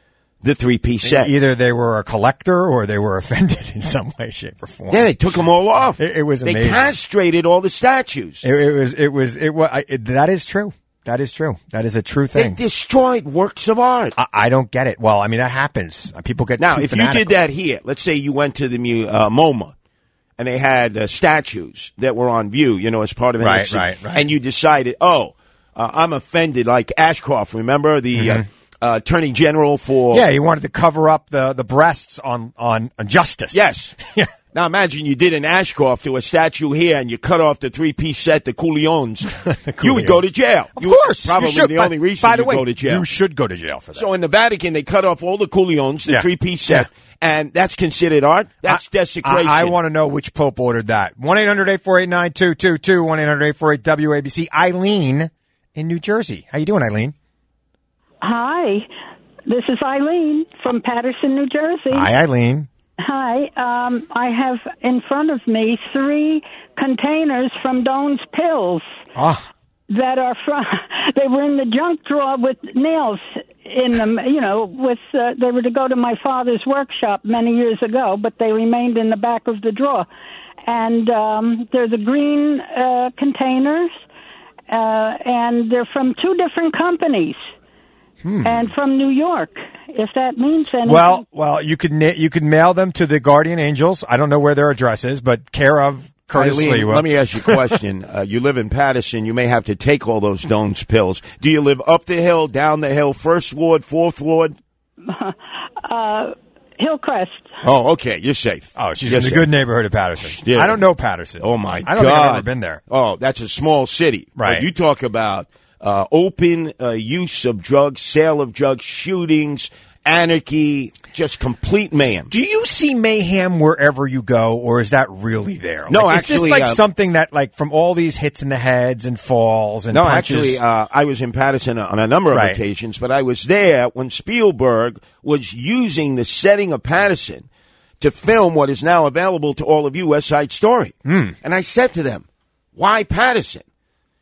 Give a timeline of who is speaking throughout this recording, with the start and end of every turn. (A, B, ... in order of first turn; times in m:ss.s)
0:00.4-0:01.3 A
0:01.0-0:05.1 B
0:04.9-0:08.4 A
0:06.0-0:06.9 B
0:08.4-0:12.6 B
0:12.4-0:14.1 A
0:14.2-0:17.4 B
0:16.6-0:19.7 A
0:20.4-0:30.2 A
0:23.4-0:24.3 B
0:28.1-0:28.4 B
0:30.1-0:34.3 B
0:33.5-0:33.9 A
0:34.5-0:39.3 A
0:39.3-0:40.2 B
0:39.8-0:43.0 A
0:40.8-0:44.0 B
0:43.9-0:49.7 A
0:46.1-0:46.9 B
0:48.6-0:57.1 B
0:58.2-0:58.9 C
0:59.5-1:02.1 C
1:01.9-1:02.7 B
1:03.0-1:08.9 C
1:09.1-1:09.4 B
1:09.9-1:20.1 C
1:20.6-1:24.0 C
1:24.7-1:27.4 C
1:28.2-1:28.7 B
1:28.4-1:31.2 C
1:30.8-1:37.7 B
1:36.4-1:44.6 A
1:45.1-1:47.5 C
1:47.6-1:49.4 A
1:48.8-1:52.8 B
1:50.2-1:50.8 A
1:51.4-2:02.3 A
1:54.4-1:54.6 B
2:02.3-2:10.6 B
2:05.9-2:06.8 A
2:09.9-2:17.5 A
2:12.3-2:12.6 B
2:18.0-2:23.6 A
2:21.0-2:21.4 B